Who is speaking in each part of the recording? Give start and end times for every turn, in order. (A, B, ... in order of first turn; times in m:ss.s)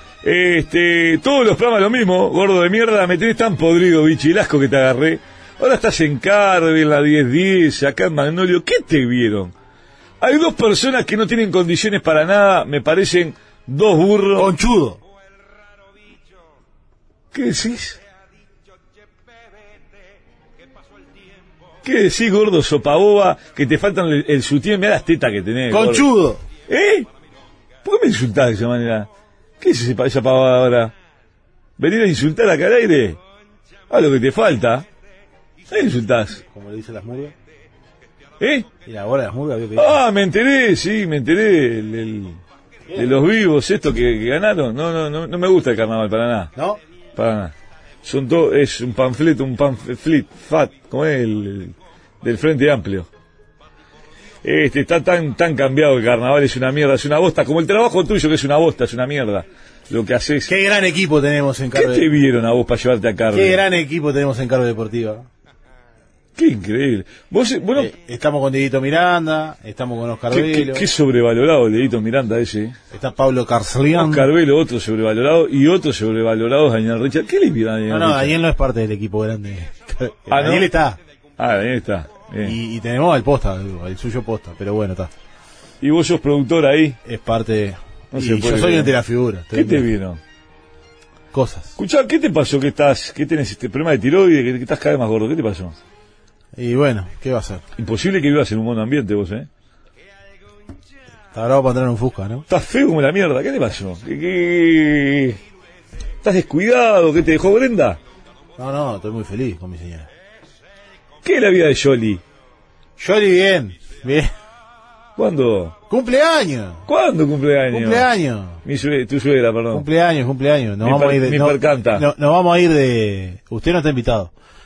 0:00.2-0:09.5 A
0:10.2-0:14.5 A
0:14.4-0:15.0 B
0:17.3-0:18.0 A
0:21.8-0:26.0 A
0:25.7-0:26.4 B
0:26.7-0:27.1 A
0:27.8-0:29.1 A
0:29.6-0:30.9 A
0:31.8-0:33.2 A
0:33.9-0:34.8 A
0:35.7-0:36.4 A
0:36.5-0:37.3 B
0:38.4-0:38.7 A
0:38.8-0:40.0 B
0:39.8-0:42.4 A
0:42.9-0:43.2 B
0:42.9-0:46.5 A
0:46.5-0:46.8 B
0:47.2-0:47.5 A
0:48.0-0:53.1 A
0:54.4-1:00.5 A
1:00.5-1:02.1 B
1:01.7-1:03.6 A
1:03.3-1:05.3 B
1:06.4-1:07.9 A
1:07.7-1:10.8 B
1:10.3-1:12.8 A
1:12.9-1:14.3 B
1:13.9-1:18.3 A
1:17.9-1:21.0 B
1:20.3-1:20.7 A
1:21.4-1:22.6 A
1:22.4-1:25.1 B
1:25.8-1:27.0 A
1:27.0-1:29.9 B
1:28.1-1:28.9 A
1:29.5-1:30.2 A
1:31.3-1:31.7 B
1:31.8-1:35.8 A
1:36.5-1:37.6 B
1:37.8-1:39.5 A
1:41.3-1:42.4 B
1:42.5-1:45.4 A
1:46.2-1:48.0 A
1:48.6-1:50.1 B
1:51.2-1:52.2 A
1:53.0-1:54.3 B
1:55.2-1:55.7 A
1:55.9-1:56.8 B
1:56.9-1:58.1 A
1:57.7-1:58.6 B
1:58.6-1:59.8 A
1:59.7-2:04.3 B
2:00.8-2:02.0 A